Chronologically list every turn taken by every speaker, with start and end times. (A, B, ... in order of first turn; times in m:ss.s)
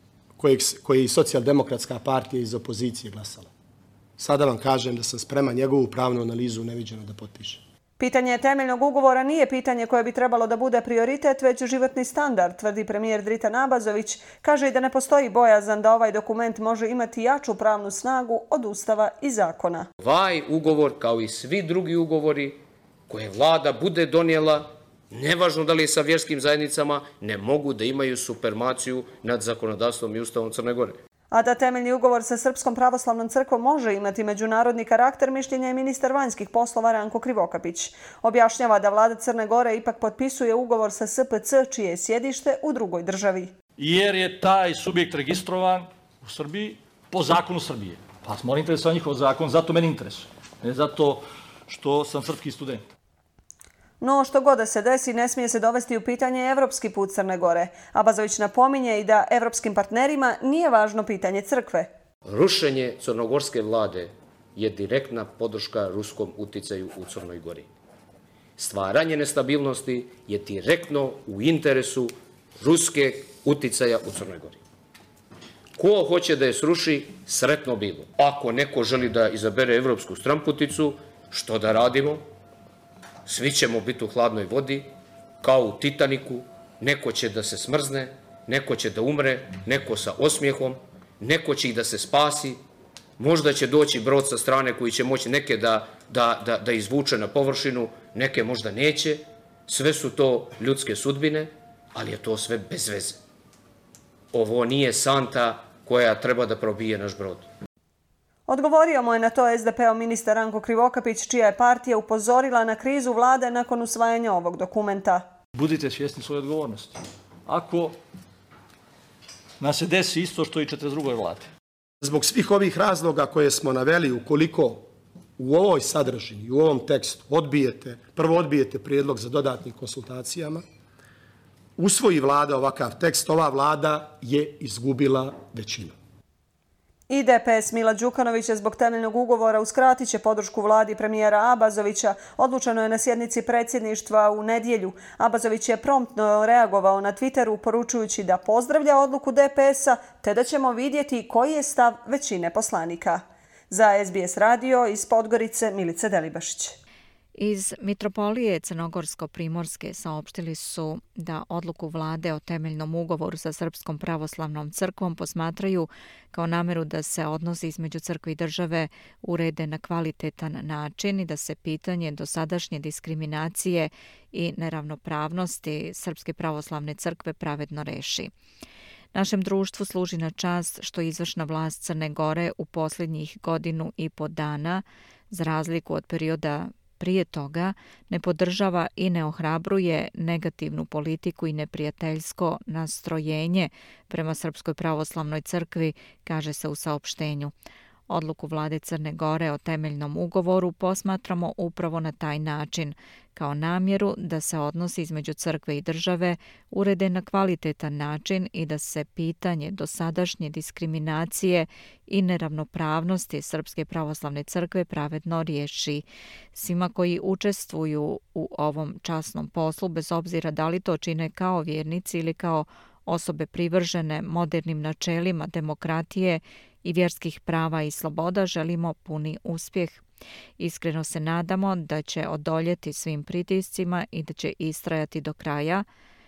0:00.4-0:03.5 A
0:04.2-0:07.6 A
0:08.0-0:19.9 B
0:20.0-0:22.6 C
0:23.1-0:31.0 C
0:31.3-0:43.5 B
0:43.8-0:52.8 D
0:54.0-1:01.9 B
1:02.3-1:07.7 C
1:08.6-1:14.6 C
1:15.8-1:22.2 C
1:23.3-1:24.9 C
1:25.4-1:32.6 C
1:33.2-1:43.2 C
1:44.3-1:47.5 C
1:48.5-1:55.3 B
1:55.6-1:58.0 D
1:59.6-2:01.5 D
2:02.0-2:04.8 A
2:05.4-2:10.6 A
2:11.8-2:15.9 A
2:17.1-2:36.8 B
2:37.4-2:58.3 E
2:59.1-3:17.5 E
3:18.1-3:50.0 E
3:50.6-3:55.8 E